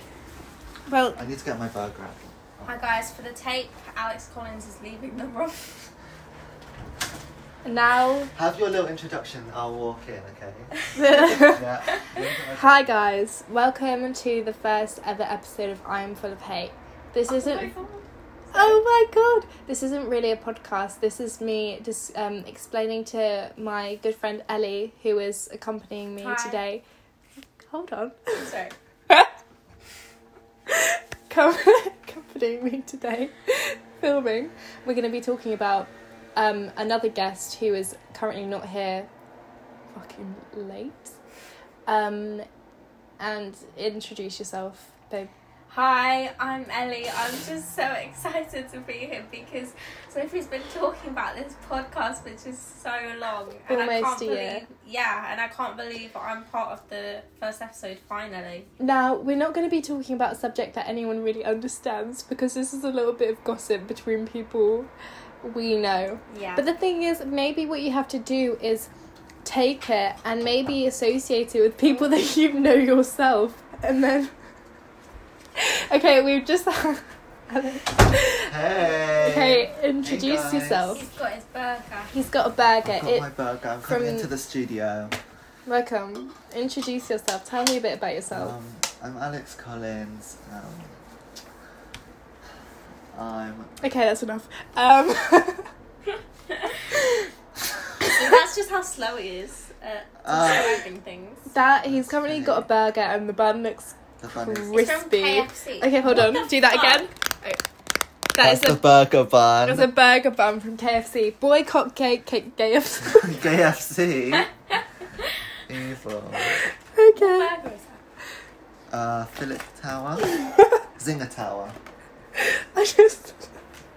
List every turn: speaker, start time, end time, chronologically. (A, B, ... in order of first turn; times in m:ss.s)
0:00.9-0:01.2 A
0:01.1-0:02.7 B
0:02.6-0:05.9 C
0:07.6-0:08.3 A
0:08.3-0:13.0 B
0:10.9-0:17.7 A
0:17.3-0:18.8 C
0:18.5-0:26.8 A
0:26.2-0:26.6 C
0:27.6-0:28.5 A
0:28.4-0:28.7 C
0:30.7-0:39.1 A
0:39.9-0:41.1 A
0:41.8-0:42.5 A
0:43.2-0:45.3 A
0:45.7-0:58.7 C
0:53.7-0:54.7 A
0:58.8-1:04.9 A
1:05.4-1:08.9 A
1:06.3-1:06.6 C
1:09.4-1:14.3 A
1:11.8-1:12.1 C
1:15.6-1:21.0 A
1:18.5-1:21.0 B
1:20.9-1:22.2 C
1:22.1-1:23.3 A
1:22.8-1:25.2 B
1:23.8-1:24.3 A
1:25.7-1:28.5 A
1:28.3-1:31.0 B
1:33.1-1:33.8 B
1:33.8-1:35.7 A
1:38.0-1:41.5 C
1:40.2-1:40.8 B
1:41.5-1:47.6 A
1:41.8-1:42.7 B
1:44.2-1:44.8 B
1:44.7-1:47.1 C
1:48.3-1:48.8 A
1:48.4-1:49.9 B
1:49.6-1:53.4 A
1:53.0-1:54.5 B
1:55.7-1:56.6 B
1:56.9-1:57.5 A
1:57.2-1:58.0 C
1:58.9-2:01.8 B
2:02.4-2:03.6 A